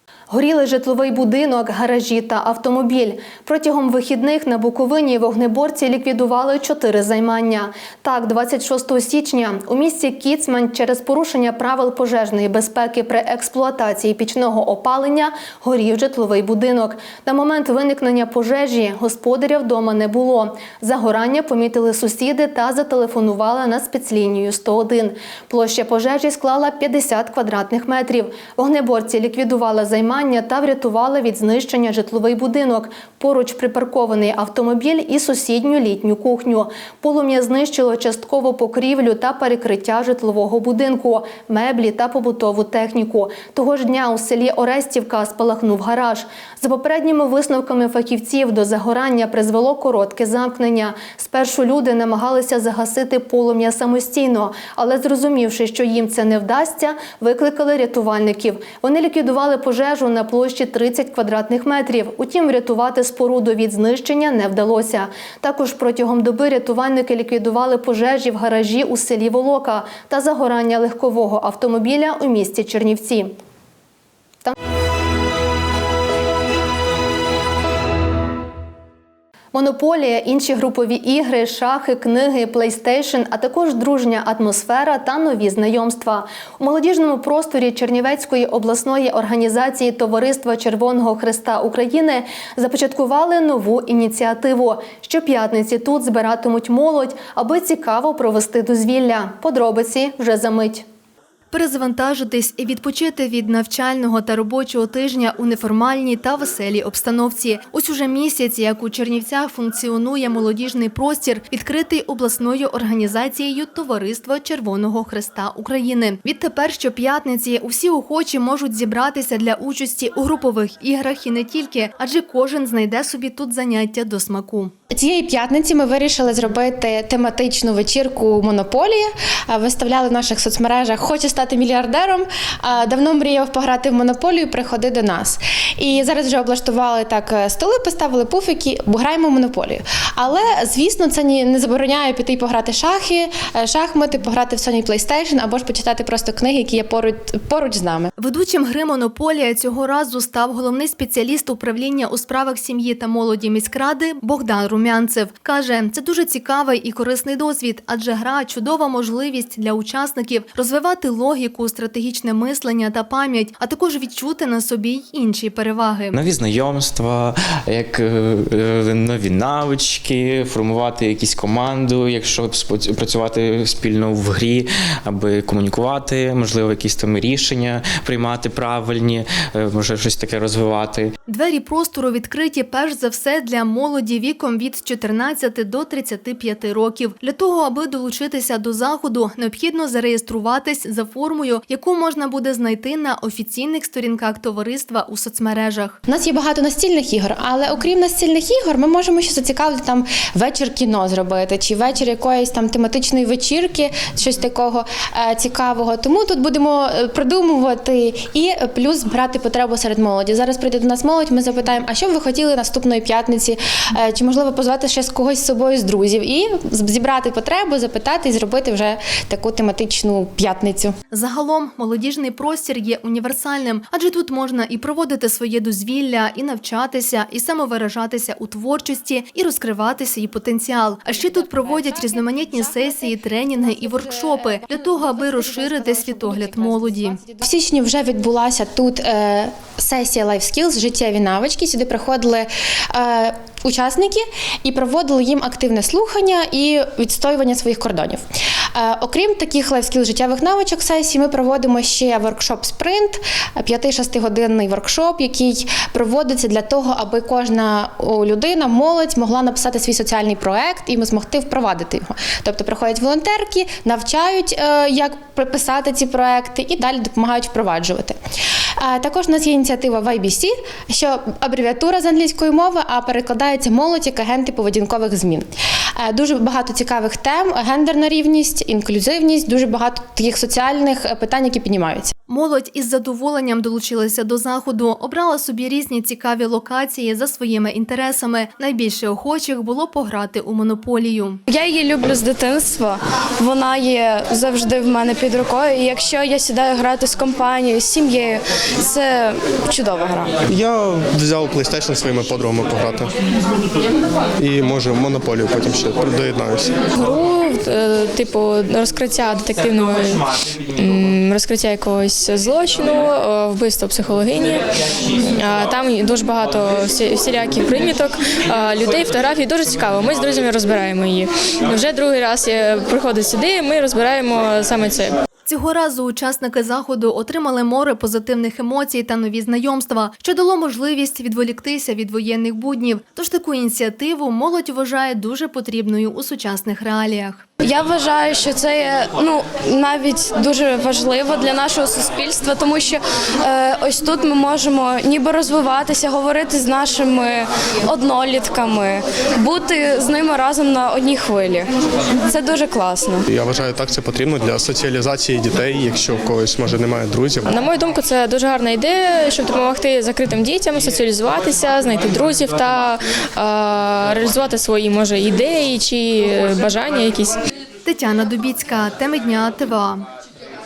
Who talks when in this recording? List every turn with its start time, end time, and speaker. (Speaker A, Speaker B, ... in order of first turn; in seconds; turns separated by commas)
Speaker A: 0.3-73.3, Speaker A: 79.5-100.8, Speaker A: 101.5-124.7, Speaker B: 124.9-148.1, Speaker A: 148.2-166.2, Speaker C: 166.1-181.1, Speaker A: 181.3-196.0, Speaker B: 196.1-220.9, Speaker A: 221.1-237.2, Speaker B: 231.2-248.2, Speaker B: 248.7-268.2, Speaker B: 268.8-282.1, Speaker A: 282.3-291.4, Speaker D: 291.5-300.3, Speaker E: 300.4-303.1, Speaker E: 304.4-306.7, Speaker F: 306.9-314.6, Speaker F: 315.2-325.2, Speaker A: 325.4-337.4, Speaker D: 337.6-351.7, Speaker D: 352.3-353.2, Speaker E: 353.3-357.5, Speaker F: 357.4-367.4, Speaker A: 367.8-370.1